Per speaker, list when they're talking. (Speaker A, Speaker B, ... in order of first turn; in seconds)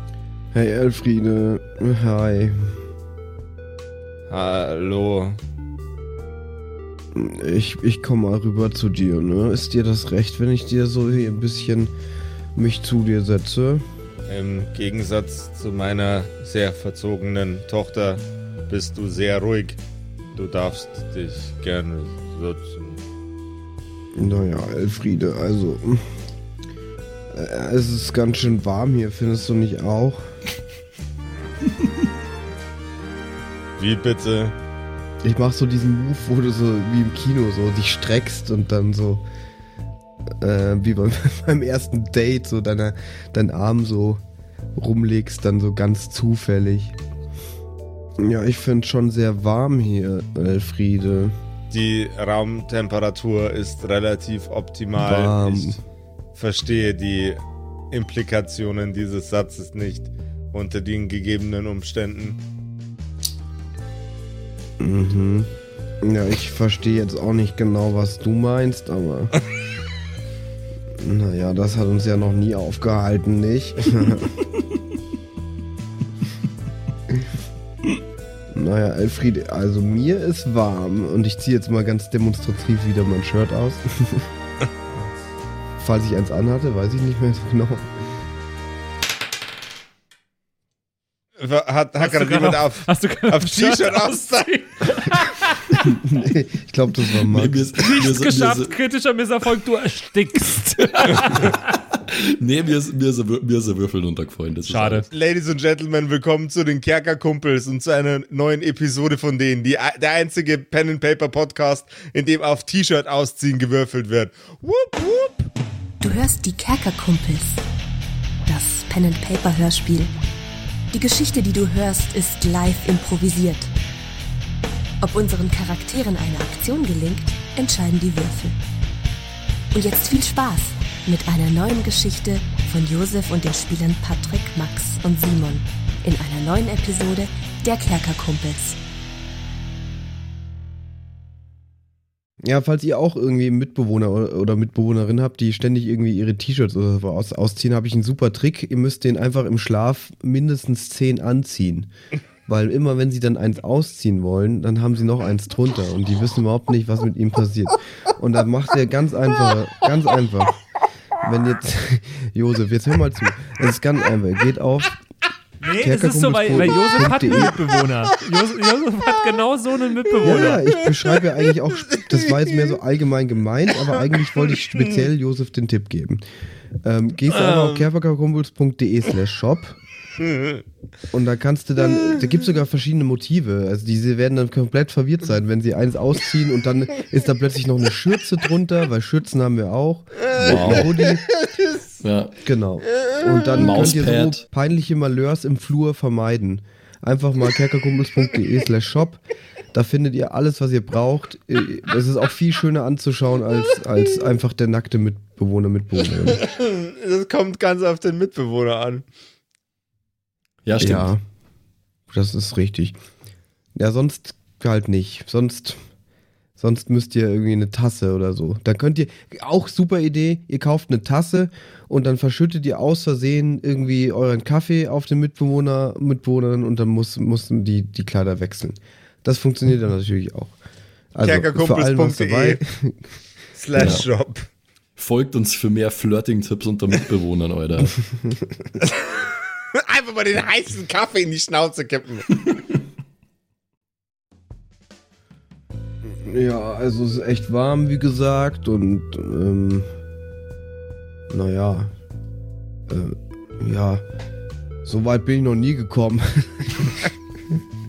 Speaker A: 0.5-2.8, 7.1-11.9, 12.5-13.8, 24.1-26.1, 27.3-30.4, 35.2-39.2, 40.4-44.2, 44.8-47.0, 48.2-51.3, 55.0-55.8, 64.8-69.3, 71.0-74.3, 78.5-84.3, 85.8-87.9, 95.8-97.7, 142.4-151.9, 152.5-160.6, 161.2-165.0, 165.8-167.7, 170.2-176.2, 176.8-179.8, 181.1-191.3, 192.4-206.4, 210.8-211.2, 212.1-212.9, 213.8-215.8, 216.6-230.5, 231.1-233.1, 238.1-238.7, 246.0-249.9, 251.3-251.9, 252.9-254.0, 254.8-257.1
Speaker B: 4.3-5.4, 14.3-19.8, 20.3-23.0, 33.8-34.5, 51.7-55.8, 56.4-62.4, 91.4-94.5, 105.1-115.5, 177.4-177.8, 180.2-180.6, 206.4-209.0, 231.2-232.6, 233.6-234.5, 238.8-242.4
Speaker C: 92.0-96.0, 97.8-101.7, 104.6-105.1, 165.6-170.7
Speaker D: 97.3-98.7, 101.1-105.1, 190.3-190.9, 192.0-192.4, 193.5-194.4, 210.6-211.1, 233.8-234.1, 235.0-238.0
Speaker E: 116.0-117.6, 118.5-120.1, 120.9-123.7, 125.0-128.6, 129.7-138.8